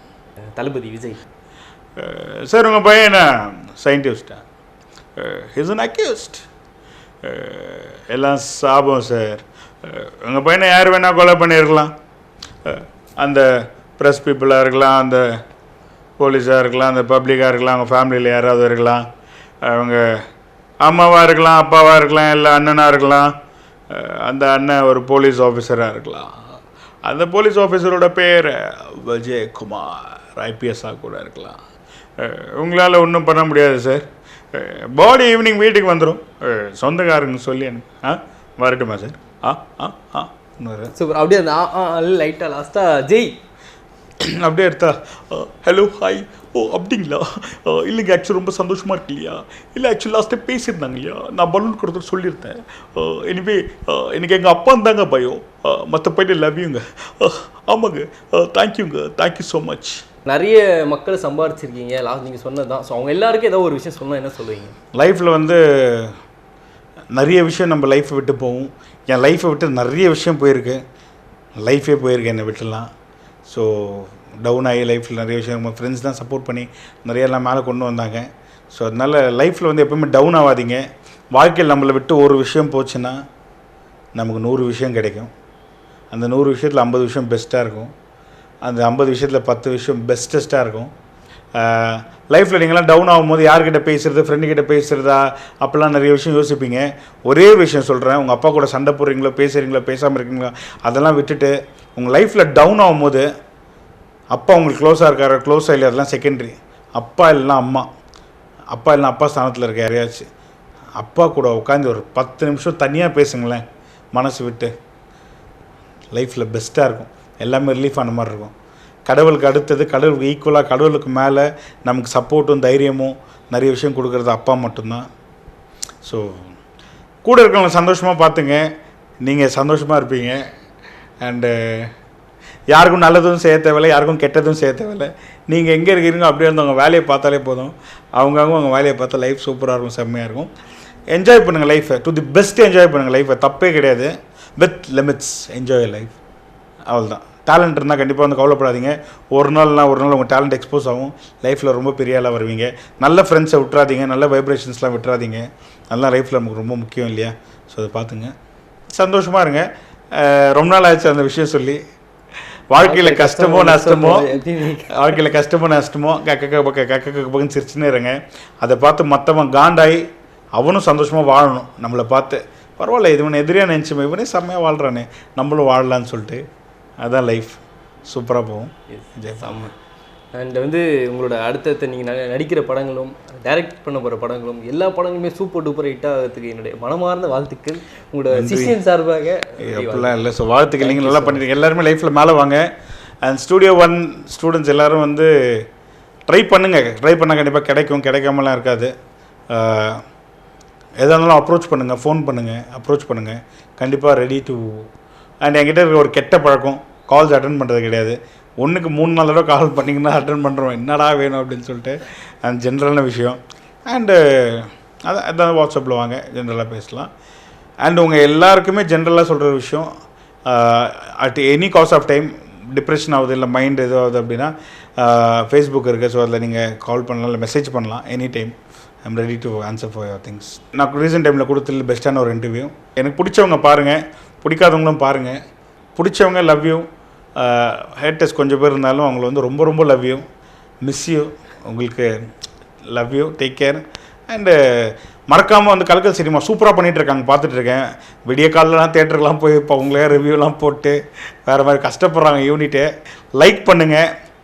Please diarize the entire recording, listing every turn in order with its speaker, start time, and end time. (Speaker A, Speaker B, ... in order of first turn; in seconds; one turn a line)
Speaker A: 0.6-1.2
Speaker B: 2.0-4.4
Speaker B: 5.2-6.5
Speaker B: 7.2-11.9
Speaker B: 12.6-15.2
Speaker B: 16.2-19.1
Speaker B: 19.6-20.2
Speaker B: 20.8-23.3
Speaker B: 23.9-26.4
Speaker B: 27.1-31.6
Speaker B: 32.2-40.9
Speaker A: 40.9-43.4
Speaker B: 44.2-60.0
Speaker A: 60.3-64.8
Speaker B: 64.9-66.2
Speaker B: 67.1-70.8
Speaker B: 71.6-72.9
Speaker B: 73.5-83.2
Speaker B: 84.2-85.3
Speaker B: 86.1-87.9
Speaker B: 88.6-90.9
Speaker B: 91.5-103.3
Speaker B: 104.3-107.9
Speaker B: 108.7-110.3
Speaker B: 111.0-114.7
Speaker B: 116.1-118.5
Speaker B: 119.1-125.1
Speaker B: 126.0-126.5
Speaker B: 127.2-128.6
Speaker B: 129.2-130.4
Speaker B: 131.2-131.9
Speaker B: 132.7-140.5
Speaker B: 141.1-146.2
Speaker B: 146.9-158.3
Speaker B: 158.9-161.8
Speaker B: 162.7-176.4
Speaker A: 162.8-165.0
Speaker B: 177.0-179.7
Speaker A: 178.9-179.7
Speaker A: 180.3-190.2
Speaker B: 188.3-188.8
Speaker B: 189.6-192.7
Speaker A: 190.8-191.4
Speaker B: 193.2-195.7
Speaker B: 196.3-198.9
Speaker B: 199.5-200.0
Speaker B: 201.0-204.9
Speaker B: 205.4-217.1
Speaker B: 217.8-219.9
Speaker B: 220.5-235.4
Speaker B: 236.0-240.2
Speaker B: 240.8-242.3
Speaker B: 242.9-254.1